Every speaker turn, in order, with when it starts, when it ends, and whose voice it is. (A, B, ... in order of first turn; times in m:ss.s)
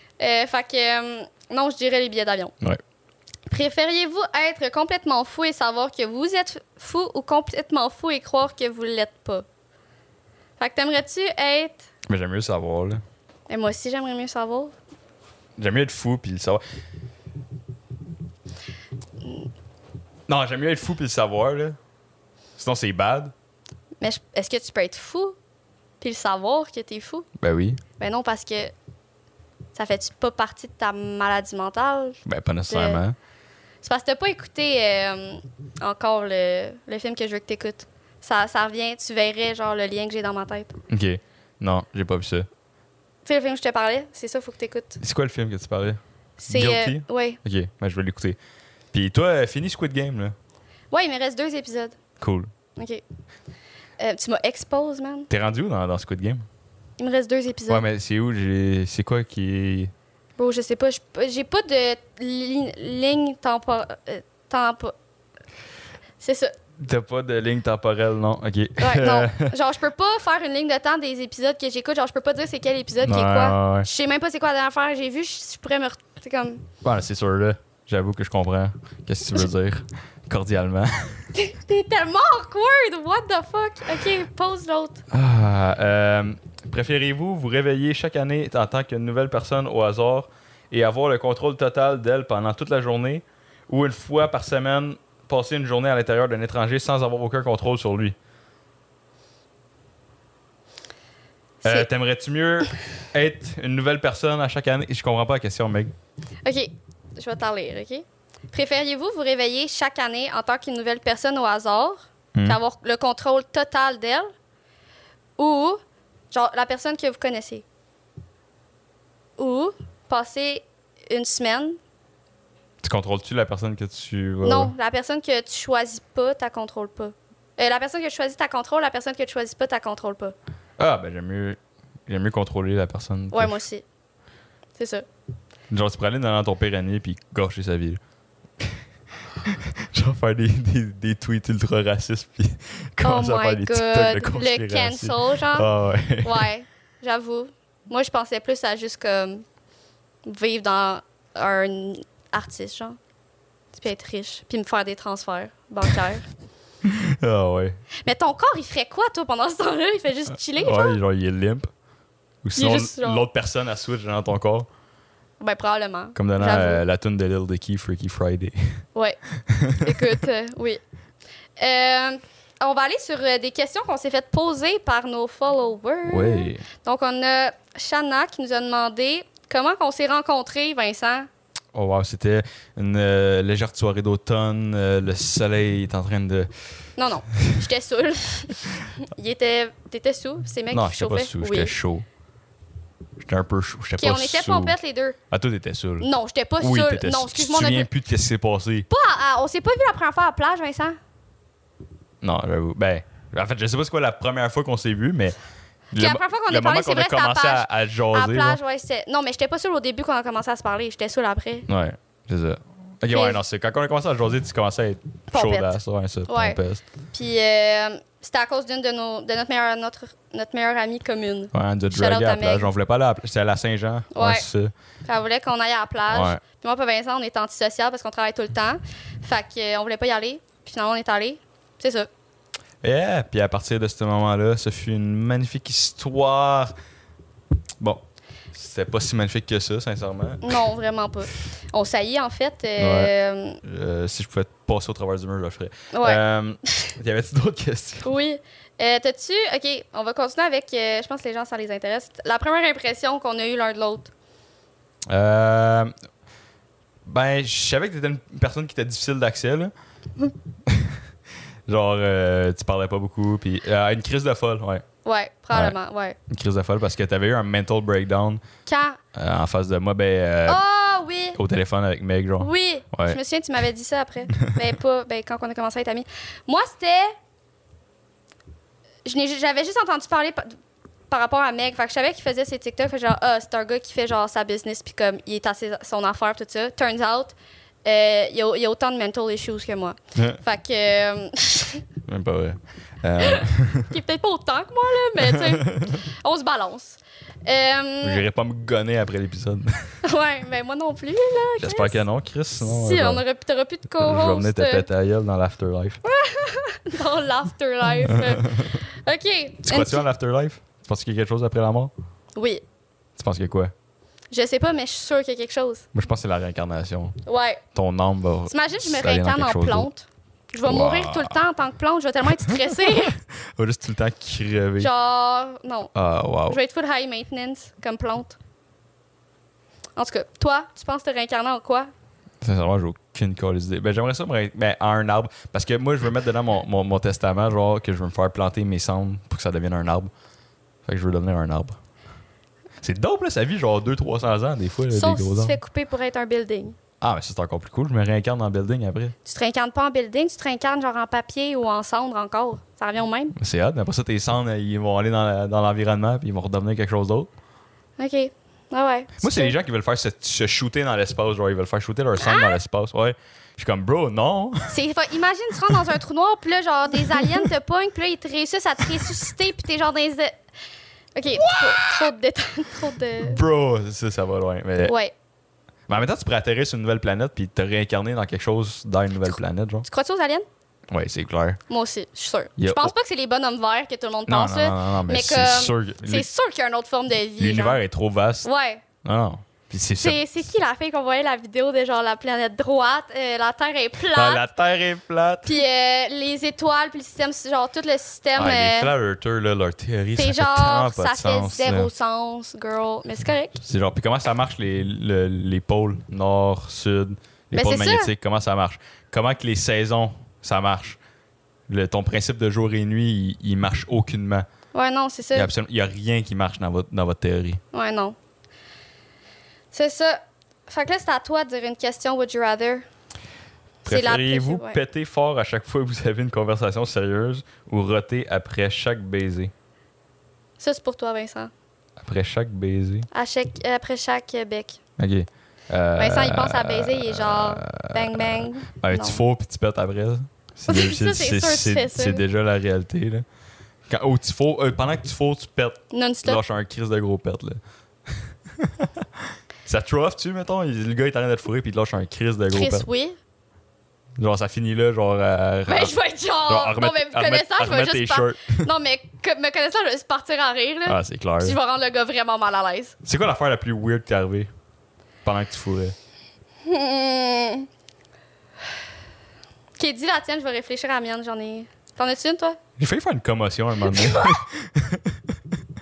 0:00.2-0:02.6 A
0:03.5-0:09.5 A
0:10.6-0:11.8 A
0:12.1-0:13.0 B
0:13.5-0:14.8 A
0:15.6-0:16.6 B
0:20.3-0:21.8 B
0:22.6-0:23.3 B
0:24.0-0:25.4 A
0:26.0-0:27.3 A
0:27.4-0:27.8 B
0:28.0-0:28.7 A
0:29.8-0:33.0 A
0:32.2-0:33.2 B
0:33.8-0:40.8 A
0:40.9-0:42.5 B
0:43.2-0:45.0 A
0:45.0-0:48.4 B
0:46.4-0:47.4 A
0:48.9-0:50.4 B
0:50.9-0:52.0 A
0:52.2-0:52.5 B
0:52.8-0:53.0 A
0:54.0-0:55.3 A
0:55.3-0:56.5 B
0:57.0-0:57.8 A
0:57.7-0:59.9 B
1:00.4-1:05.0 A
1:06.2-1:06.6 A
1:06.8-1:09.5 B
1:08.8-1:16.7 A
1:13.0-1:13.9 B
1:16.8-1:21.3 B
1:21.4-1:25.0 A
1:25.1-1:38.2 B
1:41.6-1:45.9 B
1:46.4-1:54.3 A
1:55.4-1:57.6 A
1:59.4-2:01.8 A
2:02.8-2:04.7 B
2:04.4-2:10.4 A
2:10.8-2:13.6 B
2:13.3-2:13.8 A
2:14.8-2:15.1 A
2:15.7-2:18.0 B
2:19.4-2:26.5 B
2:23.0-2:25.7 A
2:26.2-2:29.4 A
2:30.2-2:33.0 A
2:33.7-2:36.2 A
2:36.8-2:37.8 B
2:38.0-2:41.0 A
2:40.6-2:41.7 B
2:42.4-2:44.7 B
2:42.6-2:43.3 A
2:45.4-2:46.8 A
2:46.2-2:48.8 B
2:49.4-2:50.2 B
2:49.8-2:50.8 A
2:51.6-3:01.3 A
2:56.1-2:56.6 B
3:01.7-3:06.5 B
3:07.0-3:11.8 A
3:10.7-3:12.1 B
3:13.2-3:14.8 B
3:14.0-3:15.2 A
3:15.3-3:16.1 B
3:16.0-3:17.9 A
3:16.6-3:18.9 B
3:18.9-3:21.0 A
3:22.2-3:25.4 B
3:25.9-3:28.6 B
3:26.0-3:31.7 A
3:31.7-3:36.8 B
3:33.1-3:33.4 A
3:35.3-3:35.8 A
3:36.3-3:36.6 A
3:37.1-3:42.7 A
3:41.5-3:44.7 B
3:44.1-3:44.4 A
3:45.0-3:52.1 A
3:46.1-3:46.4 B
3:52.8-3:56.8 B
3:57.8-4:00.6 B
4:00.4-4:03.6 A
4:02.8-4:08.1 B
4:05.9-4:06.2 A
4:08.0-4:14.1 A
4:15.1-4:15.9 B
4:17.1-4:19.7 B
4:20.7-4:21.0 B
4:21.7-4:24.8 B
4:25.0-4:26.2 A
4:26.3-4:28.4 B
4:28.7-4:29.0 A
4:29.1-4:30.6 B
4:30.5-4:31.4 A
4:31.4-4:33.2 B
4:32.4-4:37.1 A
4:39.0-4:40.6 A
4:41.1-4:51.8 A
4:52.0-4:54.0 B
4:53.2-4:58.2 A
4:55.2-4:56.0 B
4:58.0-5:00.0 B
5:00.0-5:02.0 A
5:01.6-5:03.2 B
5:02.6-5:04.9 A
5:04.0-5:06.0 B
5:06.0-5:10.1 A
5:08.0-5:08.8 B
5:09.6-5:11.9 B
5:12.4-5:12.6 A
5:13.2-5:13.7 B
5:14.3-5:15.9 A
5:15.9-5:17.2 B
5:17.2-5:17.6 A
5:17.7-5:19.9 B
5:18.5-5:23.2 A
5:20.6-5:21.4 B
5:22.4-5:24.9 B
5:24.8-5:25.9 A
5:25.9-5:26.6 B
5:26.5-5:28.4 A
5:30.0-5:31.9 A
5:32.4-5:40.1 B
5:40.8-5:41.8 B
5:42.8-5:45.6 B
5:44.9-5:46.8 A
5:47.0-5:49.2 B
5:49.2-5:53.3 A
5:53.3-5:57.3 B
5:58.0-5:59.6 A
5:59.2-6:04.8 B
6:02.2-6:02.6 A
6:04.7-6:10.4 A
6:07.1-6:07.4 B
6:11.2-6:13.4 A
6:11.4-6:12.0 B
6:13.2-6:15.0 B
6:14.9-6:15.1 A
6:15.9-6:19.9 B
6:19.8-6:20.5 A
6:20.9-6:21.6 B
6:21.7-6:27.8 A
6:22.6-6:22.9 B
6:24.3-6:26.3 B
6:27.4-6:28.5 B
6:28.4-6:28.8 A
6:29.0-6:30.4 B
6:30.0-6:34.5 A
6:34.1-6:35.6 B
6:35.4-6:38.9 A
6:38.4-6:41.9 B
6:40.2-6:43.6 A
6:43.6-6:51.0 B
6:47.5-6:48.1 A
6:51.7-6:54.5 B
6:54.7-6:55.5 A
6:55.3-6:57.6 B
6:57.7-6:58.2 A
6:59.7-7:02.9 A
7:03.8-7:04.8 A
7:03.8-7:09.5 B
7:10.6-7:11.5 A
7:12.0-7:13.1 B
7:13.1-7:14.8 A
7:15.0-7:23.2 B
7:16.0-7:19.2 A
7:20.7-7:22.2 A
7:23.9-7:29.1 B
7:25.9-7:26.4 A
7:29.6-7:32.9 B
7:32.5-7:33.2 A
7:34.2-7:36.0 B
7:35.7-7:43.0 A
7:36.5-7:38.7 B
7:40.9-7:41.6 B
7:43.0-7:44.5 B
7:45.2-7:46.0 B
7:46.6-7:47.7 A
7:49.8-7:52.6 A
7:52.8-7:55.3 B
7:53.8-7:54.4 A